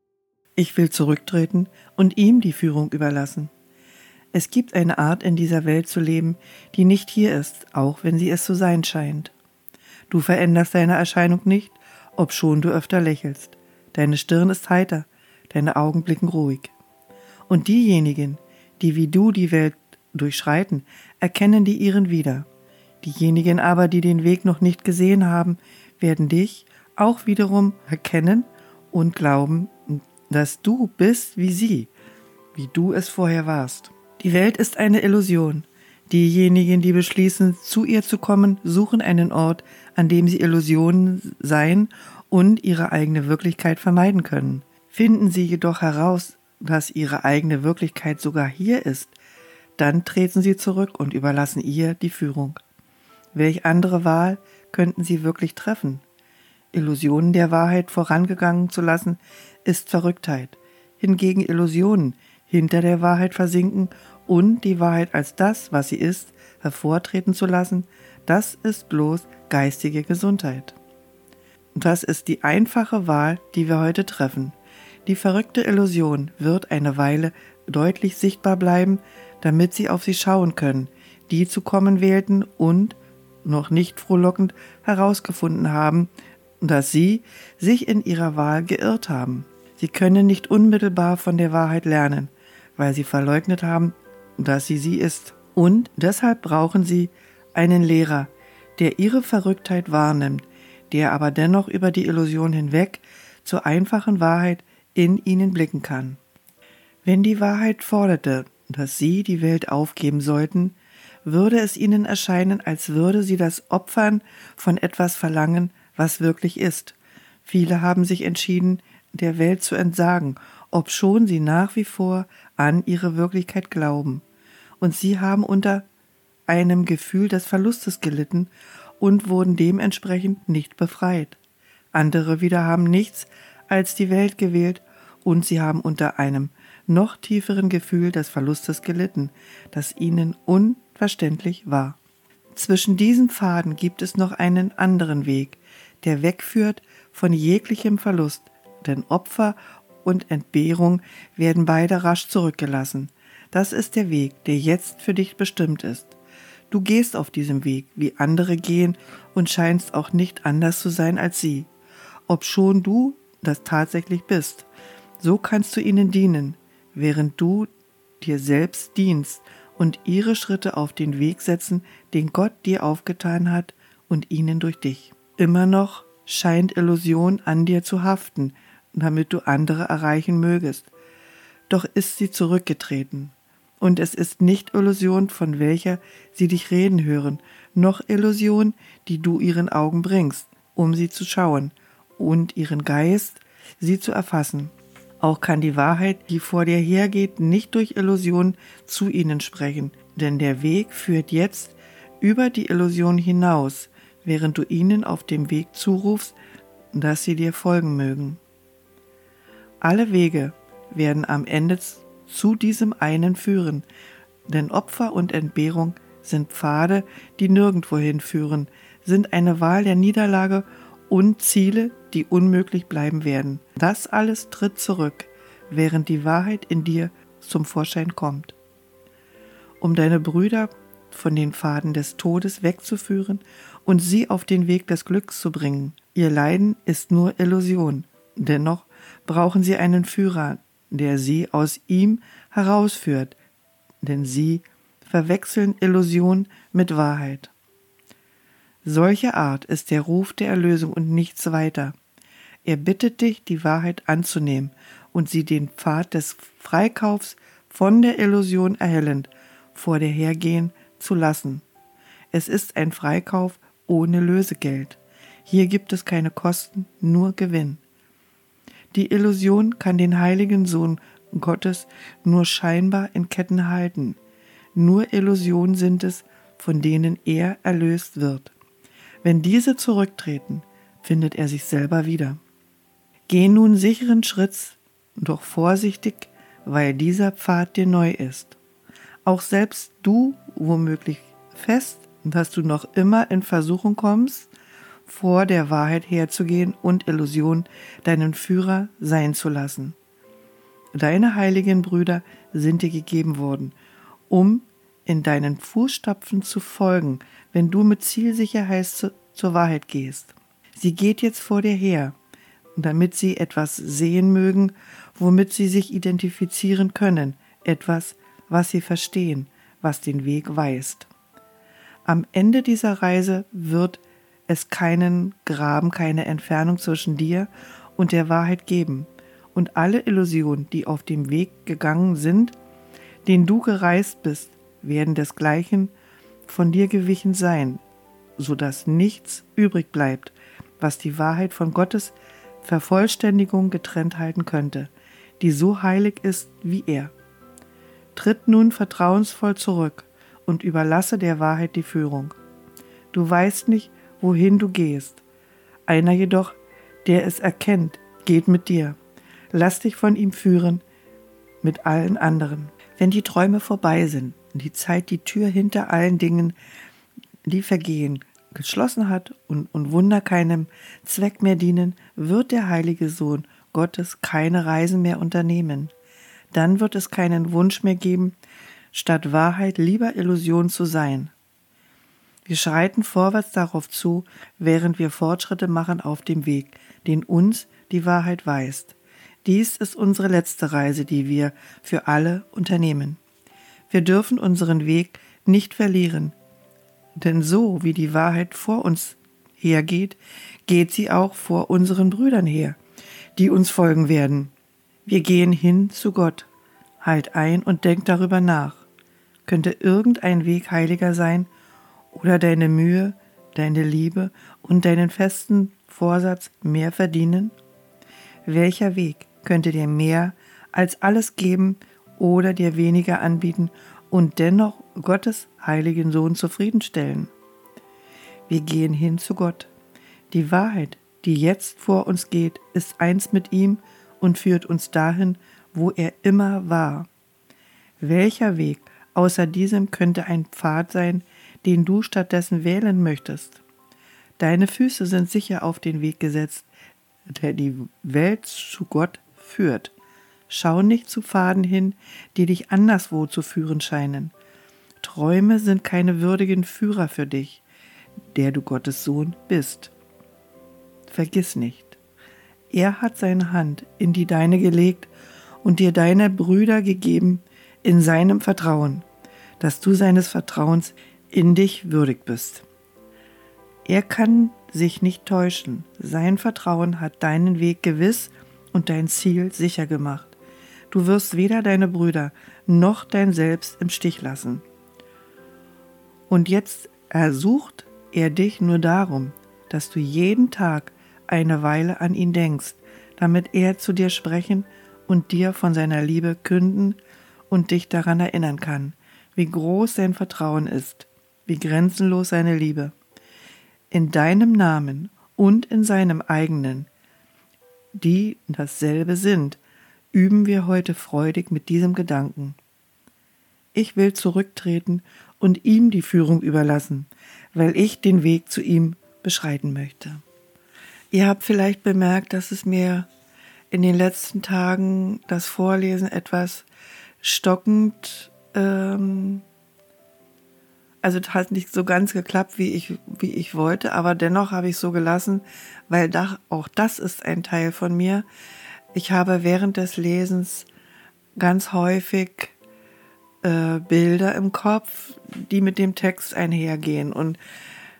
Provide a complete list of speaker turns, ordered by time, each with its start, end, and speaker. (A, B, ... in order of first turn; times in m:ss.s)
0:00.6-0:03.5 A
0:04.3-0:09.3 A
0:10.1-0:16.7 A
0:17.5-0:22.5 A
0:23.0-0:31.9 A
0:32.5-0:49.2 A
0:49.8-0:52.6 A
0:53.3-0:56.0 A
0:56.7-1:10.8 A
1:11.8-1:26.1 A
1:26.6-1:46.2 A
1:47.0-2:04.2 A
2:04.8-2:05.9 A
2:06.5-2:11.4 A
2:11.9-2:22.0 A
2:22.5-2:36.2 A
2:36.7-2:41.7 A
2:42.3-2:44.7 A
2:45.2-2:47.7 A
2:48.2-3:00.9 A
3:01.7-3:26.4 A
3:26.9-3:28.4 A
3:29.8-3:33.8 A
3:34.5-3:48.6 A
3:49.8-4:03.4 A
4:04.0-4:07.5 A
4:08.8-4:12.0 A
4:12.6-4:21.6 A
4:22.3-4:27.8 A
4:28.9-4:34.2 A
4:34.8-4:38.5 A
4:39.2-4:42.4 A
4:43.3-4:48.6 A
4:49.2-4:54.5 A
4:55.1-5:00.0 A
5:01.0-5:03.7 A
5:04.3-5:12.2 A
5:12.8-5:21.1 A
5:22.0-5:32.6 A
5:33.2-5:35.9 A
5:36.5-5:37.8 A
5:38.4-5:47.1 A
5:48.2-5:52.4 A
5:53.1-5:55.2 A
5:55.9-5:59.0 A
5:59.5-6:00.8 A
6:01.6-6:06.6 A
6:07.4-6:15.9 A
6:16.5-6:18.4 A
6:18.9-6:21.3 A
6:22.5-6:33.2 A
6:33.9-6:36.4 A
6:37.2-6:42.8 A
6:43.4-6:44.5 A
6:45.0-6:46.5 A
6:47.0-6:48.9 A
6:49.5-6:51.5 A
6:52.1-6:57.6 A
6:58.4-7:07.3 A
7:08.5-7:09.7 A
7:10.3-7:17.1 A
7:18.0-7:23.6 A
7:24.4-7:26.7 A
7:27.3-7:30.0 A
7:30.5-7:34.3 A
7:35.0-7:37.6 A
7:38.3-7:39.9 A
7:41.1-7:42.0 A
7:42.7-7:45.1 A
7:45.6-7:49.1 A
7:49.6-7:52.7 A
7:53.8-8:00.4 A
8:00.9-8:04.6 A
8:06.3-8:17.0 A
8:17.5-8:22.9 A
8:23.9-8:26.9 A
8:28.0-8:29.6 A
8:30.1-8:32.6 A
8:33.7-8:40.2 A
8:41.1-8:43.1 A
8:43.7-8:46.7 A
8:47.2-8:49.4 A
8:51.0-8:58.3 A
8:58.9-9:00.7 A
9:01.4-9:02.6 A
9:03.4-9:07.4 A